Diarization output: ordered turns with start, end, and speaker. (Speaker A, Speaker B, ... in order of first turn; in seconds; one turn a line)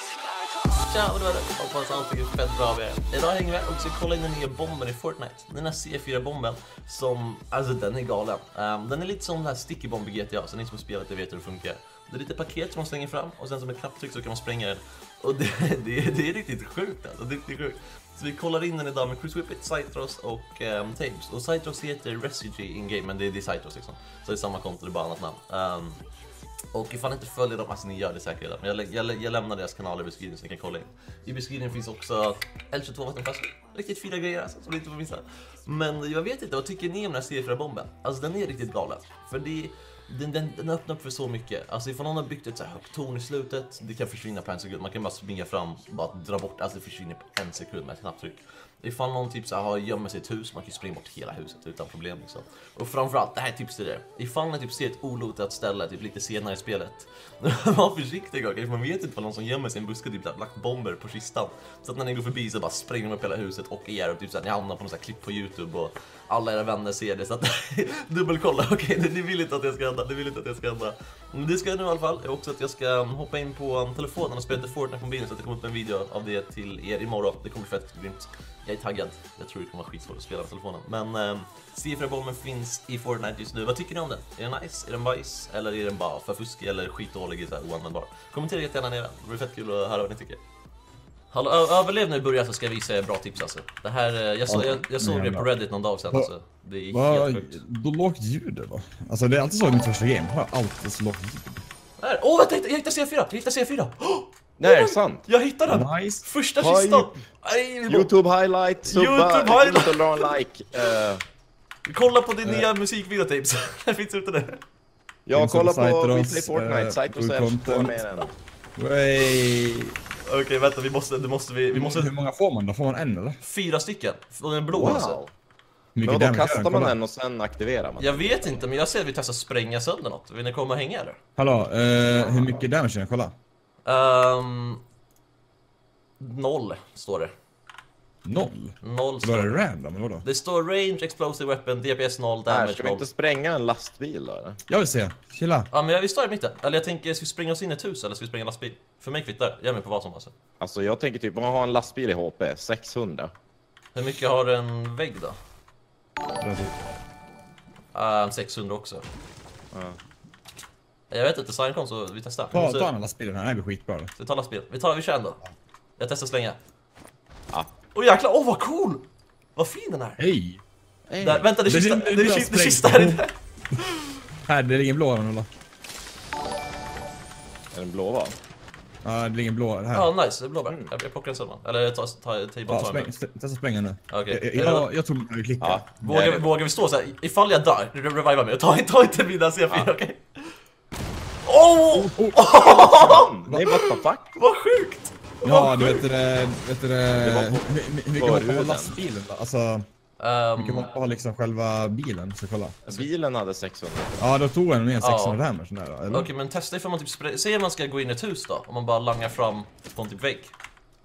Speaker A: 0.7-26.0
Speaker A: 26.7-90.4
Speaker A: 91.3-97.6
Speaker B: 94.5-95.5
Speaker B: 96.9-101.6
Speaker A: 102.0-108.1
Speaker C: 104.6-105.3
Speaker B: 105.7-106.2
Speaker C: 106.6-107.2
Speaker C: 107.9-111.2
Speaker A: 108.8-110.9
Speaker A: 111.9-114.6
Speaker C: 115.3-118.4
Speaker B: 115.3-118.0
Speaker B: 118.8-119.9
Speaker A: 120.3-122.1
Speaker B: 121.7-123.4
Speaker A: 123.4-125.2
Speaker C: 124.7-125.3
Speaker B: 126.0-127.0
Speaker C: 126.0-128.6
Speaker A: 128.0-131.2
Speaker B: 131.4-133.3
Speaker C: 132.1-132.6
Speaker A: 133.9-134.8
Speaker A: 136.2-137.3
Speaker B: 138.2-140.2
Speaker A: 138.8-139.6
Speaker A: 140.2-143.1
Speaker C: 142.5-144.6
Speaker B: 144.7-145.7
Speaker A: 145.7-150.3
Speaker C: 150.6-153.3
Speaker A: 153.9-155.4
Speaker B: 156.4-156.7
Speaker A: 157.9-159.1
Speaker C: 159.7-160.0
Speaker A: 161.1-162.9
Speaker B: 162.5-164.1
Speaker A: 164.2-165.4
Speaker A: 166.0-166.6
Speaker A: 167.9-169.1
Speaker A: 169.6-170.2
Speaker B: 170.2-170.6
Speaker C: 171.1-171.5
Speaker A: 171.2-173.3
Speaker B: 171.7-173.2
Speaker A: 173.9-174.2
Speaker B: 174.5-175.5
Speaker C: 177.7-178.4
Speaker B: 179.0-180.1
Speaker A: 179.9-183.1
Speaker C: 180.7-180.9
Speaker B: 182.7-185.9
Speaker A: 184.1-184.9
Speaker C: 185.6-186.5
Speaker A: 186.0-190.6
Speaker A: 191.4-196.1
Speaker B: 191.9-192.4
Speaker C: 192.5-194.3
Speaker B: 195.4-199.9
Speaker C: 197.2-199.0
Speaker A: 200.2-200.9
Speaker B: 200.6-202.8
Speaker C: 202.9-204.2
Speaker B: 204.2-206.3
Speaker A: 205.0-205.4
Speaker A: 206.1-210.5